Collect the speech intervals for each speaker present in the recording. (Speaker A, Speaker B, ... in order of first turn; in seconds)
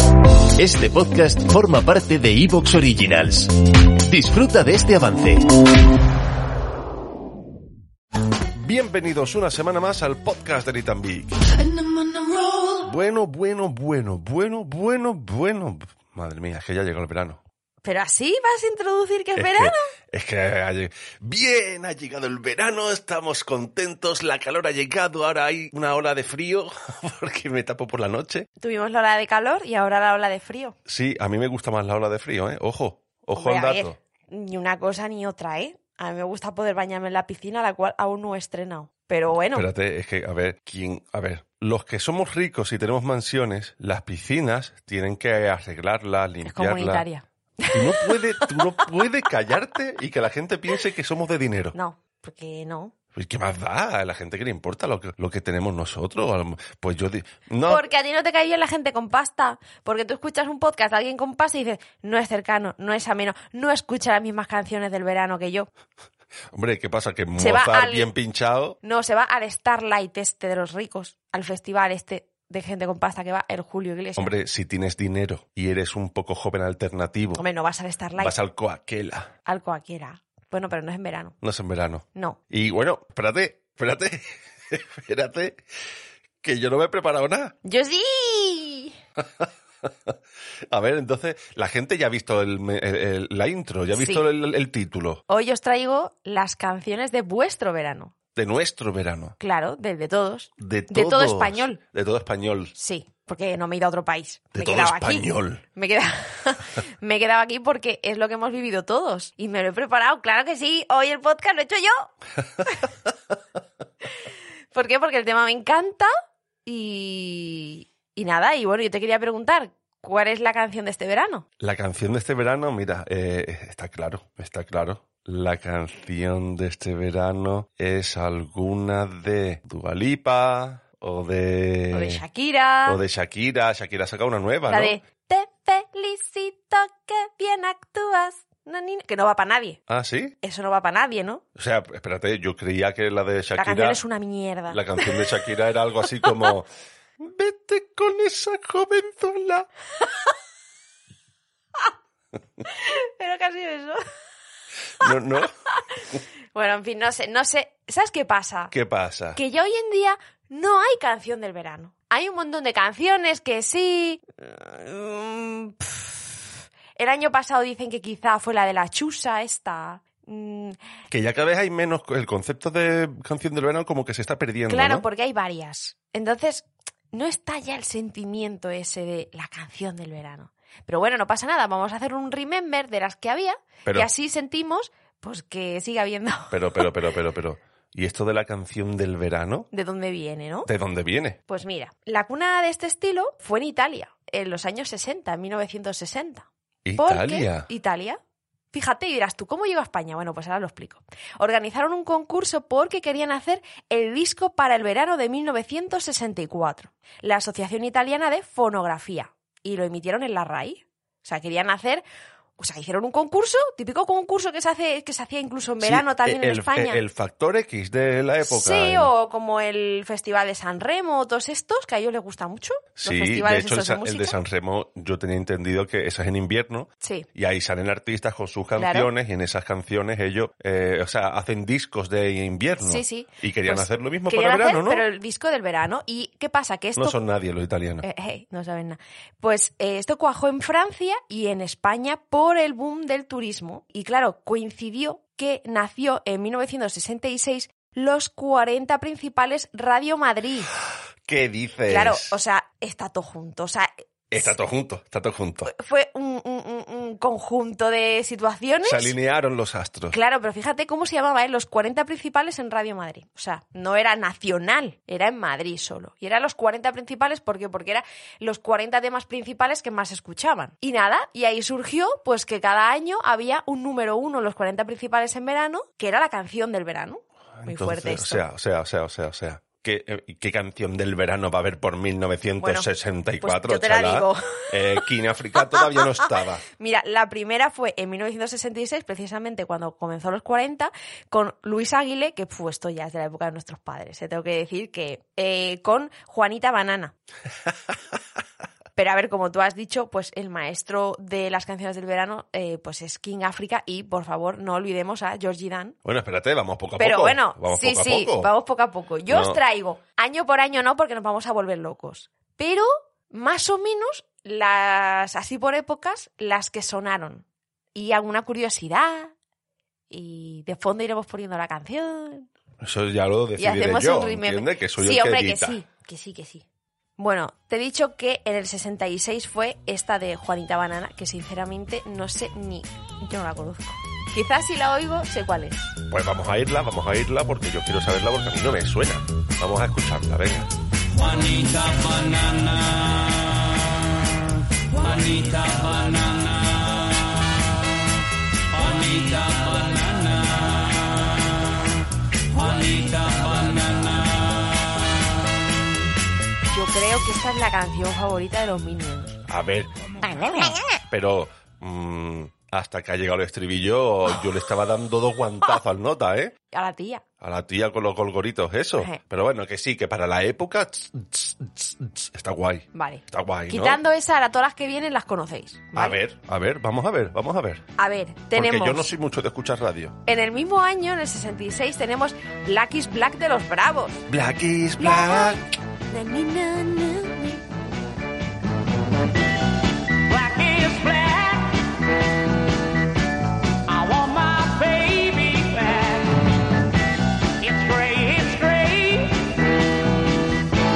Speaker A: 0.6-5.5
Speaker B: 8.6-11.4, 12.8-17.4, 19.4-28.5, 30.9-34.0, 39.5-47.1, 47.7-51.8, 53.1-57.9, 66.5-68.8, 74.2-77.4, 78.2-79.3, 81.4-85.6, 86.4-87.5, 90.7-95.2, 98.3-99.4, 100.6-102.7, 104.6-105.6, 121.6-132.2, 132.9-135.0, 139.9-140.3, 141.6-144.0, 144.7-146.7, 147.2-149.7, 155.0-155.5, 158.7-159.4, 171.1-175.1, 183.8-184.1, 186.5-189.7, 190.7-191.4, 196.8-197.7, 215.8-219.1, 223.0-235.1, 237.0-238.0, 251.3-252.3, 254.3-255.7, 258.8-260.2, 277.6-286.6, 306.1-308.5, 309.3-309.6, 322.8-325.8, 336.1-340.7, 359.5-359.9, 361.1-366.5, 367.4-374.0, 375.9-377.8, 378.5-380.2, 384.3-385.7
Speaker C: 17.8-19.9, 28.6-30.8, 33.4-39.7, 46.4-48.7, 51.7-52.9, 57.7-65.7, 67.4-68.1, 68.8-74.3, 77.4-78.4, 79.5-81.3, 82.2-82.4, 87.6-89.0, 94.0-94.3, 95.3-98.1, 99.4-101.8, 102.7-112.1, 114.7-116.1, 116.7-121.5, 131.9-133.0, 134.7-139.8, 140.4-141.4, 143.6-145.3, 152.6-154.0, 155.7-156.0, 156.5-158.7, 159.3-170.8, 174.7-186.9, 189.7-190.7, 191.5-198.2, 198.7-212.0, 212.6-217.0, 218.4-224.4, 227.0-227.3, 228.8-229.1, 232.8-237.2, 238.0-250.7, 251.9-254.6, 255.7-259.1, 260.1-278.4, 282.6-282.9, 283.4-285.0, 285.8-286.0, 286.7-297.1, 299.0-305.9, 307.0-319.3, 320.1-322.5, 323.6-326.6, 327.2-335.9, 356.7-359.4, 366.7-367.2, 372.9-376.2, 378.0-379.1, 380.3-384.2, 385.0-387.6, 390.8-391.1
Speaker D: 390.4-391.7, 394.0-396.3, 397.7-399.3